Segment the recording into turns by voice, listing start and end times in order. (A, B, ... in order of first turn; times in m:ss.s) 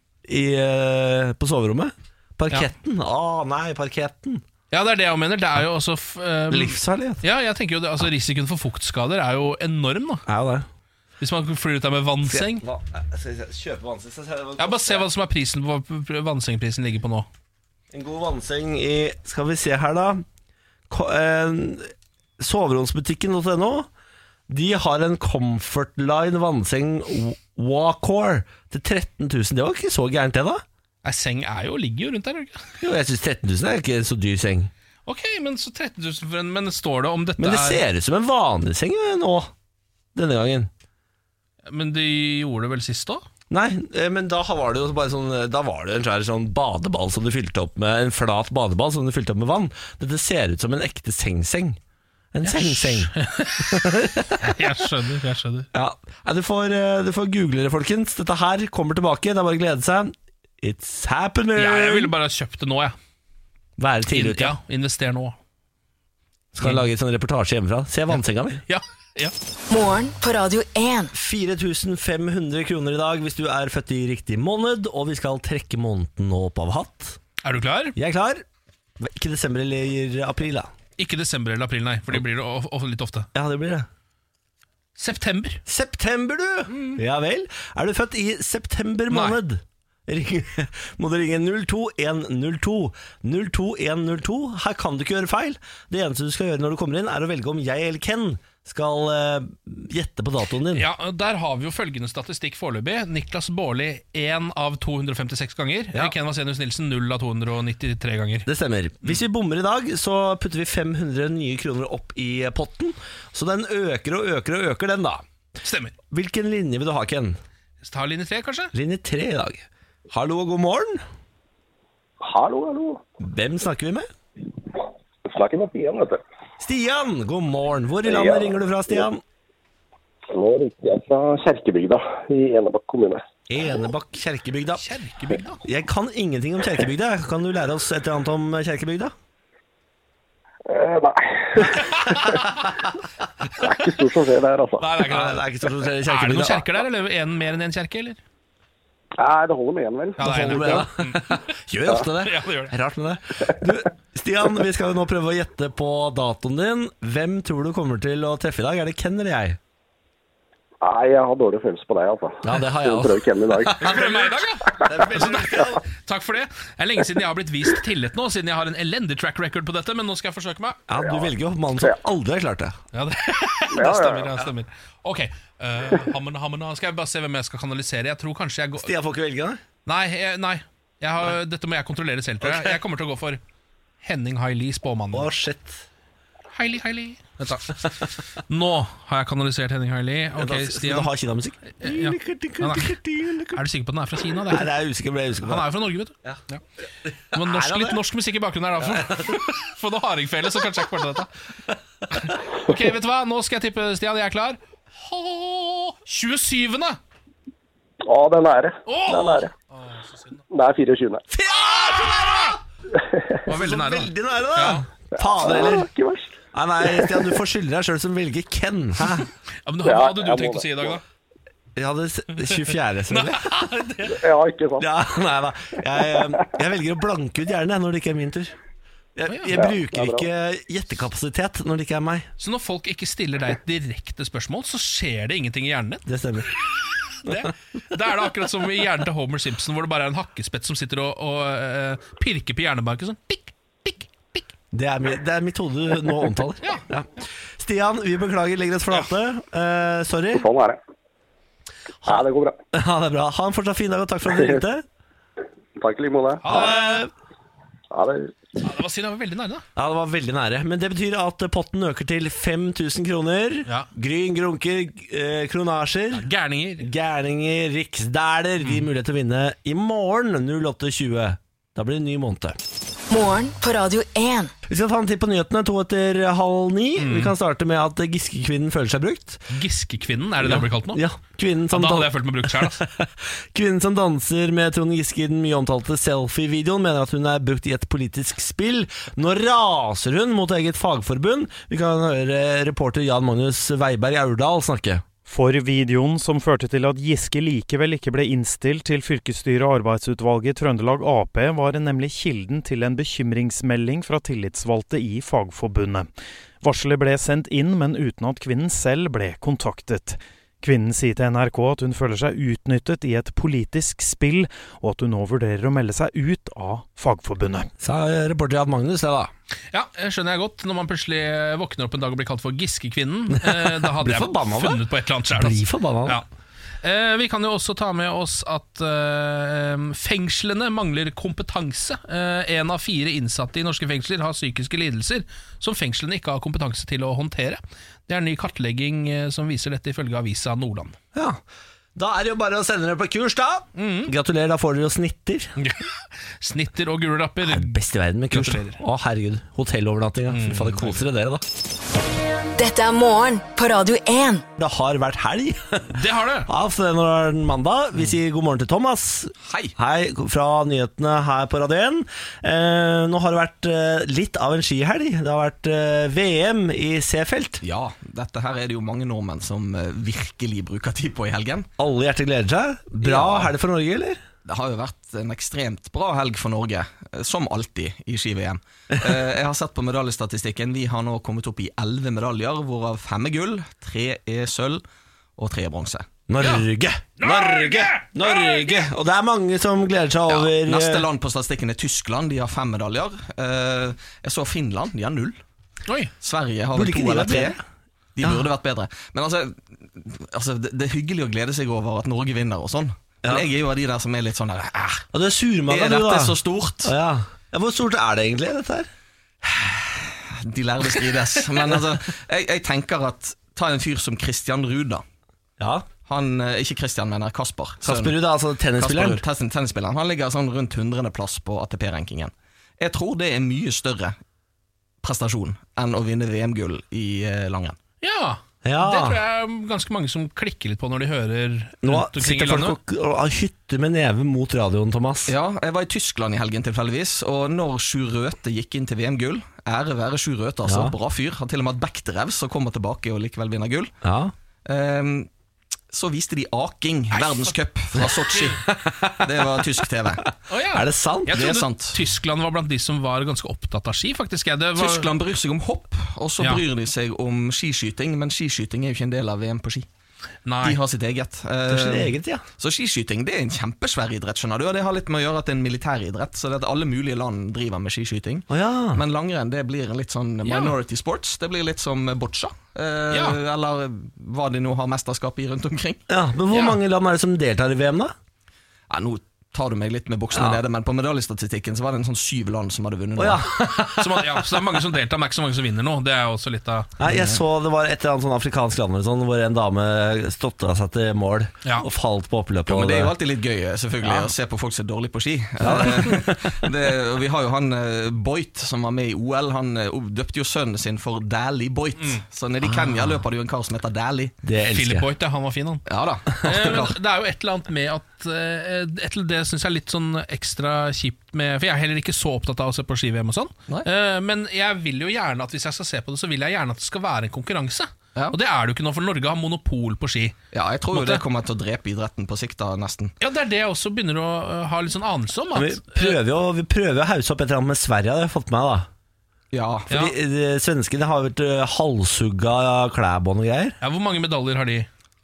0:00.2-0:04.4 A
0:04.7-0:10.2 B
0:06.5-0:07.2 A
0:10.2-0:10.7 A
0:11.2-0:12.6 B
0:12.2-0:15.1 A
0:14.6-0:17.3 B
0:17.9-0:20.2 A
0:20.9-0:23.9 A
0:24.5-0:30.6 A
0:31.0-0:32.6 B
0:32.8-0:34.7 A
0:35.0-0:37.8 B
0:37.4-0:39.5 A
0:40.1-0:40.7 A
0:41.7-0:43.2 B
0:43.5-0:51.8 A
0:52.3-0:54.7 A
0:52.4-0:55.7 B
0:55.7-1:02.1 A
1:01.6-1:02.9 B
1:03.8-1:04.6 A
1:04.1-1:05.4 B
1:06.5-1:08.6 A
1:06.6-1:06.8 B
1:08.1-1:09.3 B
1:09.7-1:11.1 C
1:11.1-1:17.2 A
1:17.4-1:18.0 B
1:18.0-1:18.4 A
1:19.0-1:20.7 A
1:21.0-1:23.3 B
1:23.3-1:23.9 A
1:25.0-1:25.6 B
1:25.6-1:40.9 A
1:26.7-1:27.0 B
1:29.1-1:29.4 B
1:40.7-1:48.5 B
1:48.4-1:55.2 A
1:55.6-1:55.9 B
1:56.1-1:57.4 A
1:57.8-1:58.7 B
1:58.7-2:01.0 A
2:02.2-2:03.0 D
2:03.2-2:04.1 A
2:05.2-2:06.2 D
2:06.6-2:09.2 A
2:08.0-2:09.0 D
2:10.3-2:13.2 D
2:13.5-2:14.9 A
2:14.8-2:15.6 B
2:15.6-2:19.1 A
2:20.7-2:22.8 D
2:22.1-2:22.5 B
2:23.5-2:24.9 D
2:24.8-2:25.4 B
2:25.1-2:26.7 A
2:26.0-2:28.2 B
2:29.2-2:30.8 D
2:30.2-2:31.4 B
2:30.2-2:39.6 A
2:32.0-2:32.7 B
2:40.8-2:43.9 D
2:42.4-2:45.8 A
2:43.7-2:50.8 B
2:50.9-2:52.8 A
2:51.0-2:51.3 D
2:52.9-2:58.9 B
2:53.7-2:54.3 D
2:58.8-2:59.6 A
2:59.8-3:03.4 B
3:02.4-3:02.8 A
3:04.0-3:05.3 B
3:05.1-3:05.8 A
3:06.5-3:11.1 B
3:10.4-3:13.6 A
3:11.8-3:13.0 B
3:13.5-3:14.7 B
3:14.4-3:15.7 A
3:15.4-3:16.6 B
3:17.3-3:18.0 A
3:17.3-3:21.3 B
3:18.8-3:19.5 A
3:22.1-3:27.0 B
3:28.0-3:29.5 D
3:28.8-3:30.4 B
3:30.5-3:31.2 D
3:31.3-3:32.6 A
3:31.7-3:32.5 B
3:33.0-3:33.4 D
3:33.4-3:34.8 B
3:33.5-3:35.9 A
3:35.2-3:37.4 D
3:36.5-3:39.3 A
3:39.6-3:41.0 B
3:39.8-3:41.0 D
3:41.8-3:43.5 A
3:43.1-3:44.2 B
3:44.0-3:44.8 D
3:44.8-3:48.6 A
3:46.1-3:46.4 D
3:49.2-3:52.3 A
3:49.3-3:49.6 B
3:49.5-3:50.3 D
3:52.4-3:56.0 B
3:56.1-3:56.5 A
3:56.7-4:04.5 B
4:04.7-4:10.4 A
4:10.3-4:10.8 D
4:12.0-4:12.6 D
4:12.0-4:14.8 A
4:15.8-4:16.6 D
4:16.4-4:17.0 B
4:16.4-4:17.1 A
4:17.9-4:18.4 D
4:18.6-4:19.6 B
4:19.8-4:32.6 A
4:26.2-4:26.9 B
4:33.1-4:34.5 C
4:34.7-4:39.4 A
4:37.0-4:37.3 B
4:39.5-4:41.0 B
4:40.4-4:55.0 A
4:41.7-4:42.8 B
4:55.3-5:06.1 E
5:06.6-5:17.7 E
5:17.8-5:19.3 A
5:19.7-5:26.2 B
5:23.3-5:26.2 A
5:26.8-5:41.0 B
5:41.1-5:41.4 A
5:41.9-5:45.5 A
5:43.8-5:44.1 B
5:45.6-5:47.8 B
5:47.4-5:51.4 A
5:48.3-5:48.8 B
5:50.3-5:51.0 B
5:52.6-5:54.4 C
5:54.6-6:07.6 A
5:55.9-5:56.5 B
5:59.4-5:59.7 F
6:07.6-6:11.7 F
6:11.8-6:14.2 A
6:13.0-6:13.5 F
6:14.4-6:24.8 F
6:25.4-6:26.1 F
6:26.3-6:31.0 A
6:26.4-6:26.6 B
6:27.2-6:28.8 B
6:30.3-6:35.4 F
6:35.8-6:36.1 B
6:36.2-6:37.6 F
6:36.7-6:37.6 A
6:38.2-6:45.0 F
6:45.1-6:48.9 A
6:45.7-6:46.9 F
6:49.4-6:55.0 F
6:55.6-6:55.9 A
6:56.0-6:58.2 F
6:57.8-6:59.2 A
6:58.8-7:04.2 F
7:05.0-7:07.8 F
7:08.0-7:12.8 B
7:08.6-7:09.2 A
7:11.8-7:15.3 A
7:15.3-7:23.9 F
7:20.6-7:20.9 A
7:24.0-7:24.3 A
7:24.7-7:25.3 F
7:25.9-7:28.6 F
7:27.1-7:27.5 B
7:28.0-7:29.6 A
7:29.2-7:30.2 F
7:30.5-7:35.1 B
7:30.7-7:31.6 A
7:31.3-7:32.0 F
7:34.8-7:39.9 F
7:40.4-7:40.8 B
7:40.6-7:56.0 F
7:41.7-7:42.4 A
7:48.5-7:49.0 A
7:50.4-7:50.7 B
7:53.1-7:53.4 B
7:56.1-7:58.1 A
7:56.5-7:56.8 B
7:58.9-8:03.4 F
8:00.3-8:00.6 A
8:03.2-8:04.6 A
8:03.9-8:06.9 B
8:07.0-8:13.1 A
8:07.0-8:07.4 F
8:12.7-8:24.3 F
8:14.0-8:14.3 A
8:15.6-8:16.5 A
8:24.4-8:25.1 A
8:24.7-8:25.8 B
8:25.9-8:26.9 F
8:26.4-8:40.4 B
8:40.5-8:43.1 F
8:40.9-8:41.2 B
8:43.2-8:46.2 B
8:45.5-8:48.9 A
8:49.5-8:49.9 F
8:49.9-8:50.1 B
8:49.9-8:53.8 A
8:53.8-8:54.9 B